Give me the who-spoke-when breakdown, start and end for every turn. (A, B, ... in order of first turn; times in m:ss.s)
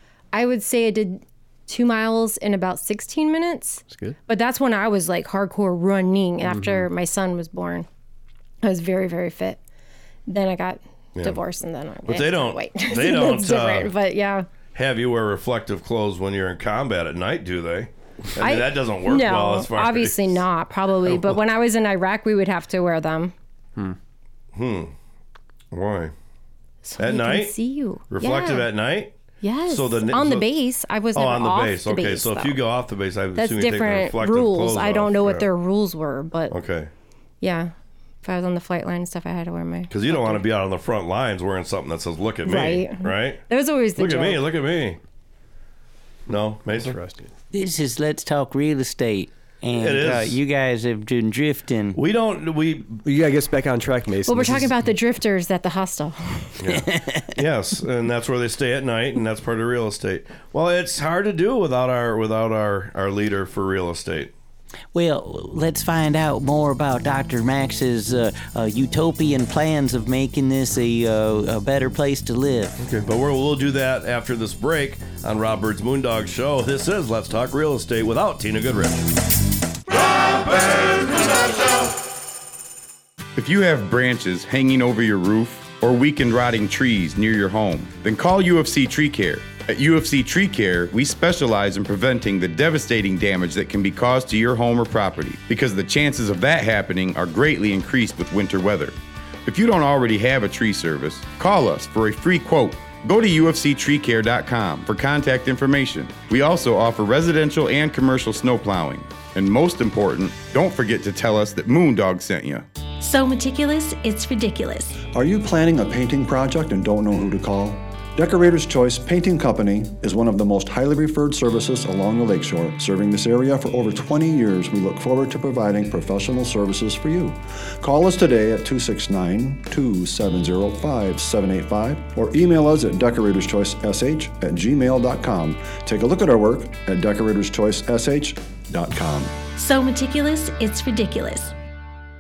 0:00.3-0:07.9 A
0:03.9-0:04.2 B
0:06.4-0:06.9 B
0:08.6-0:09.6 A
0:10.3-0:14.5 A
0:12.0-0:13.9 C
0:14.7-0:20.4 C
0:18.4-0:23.3 A
0:21.0-0:21.4 C
0:24.6-0:24.9 C
0:25.7-0:26.1 C
0:26.8-0:28.7 A
0:27.0-0:27.6 C
0:28.1-0:29.1 C
0:29.4-0:32.6 A
0:29.7-0:30.5 C
0:31.1-0:35.5 C
0:33.4-0:36.5 A
0:36.5-0:36.9 C
0:37.4-0:40.4 A
0:39.9-0:43.4 C
0:42.4-0:44.5 A
0:44.0-0:45.0 C
0:46.3-0:47.0 C
0:46.7-0:47.3 B
0:47.5-0:52.0 D
0:49.8-0:50.4 C
0:52.0-0:53.0 C
0:53.0-0:54.9 B
0:54.3-0:56.6 A
0:56.6-1:04.3 C
0:56.8-0:57.3 D
1:04.9-1:12.8 D
1:12.8-1:19.1 C
1:23.4-1:52.7 E
1:53.0-1:55.0 F
1:55.1-2:19.3 G
2:19.6-2:21.5 F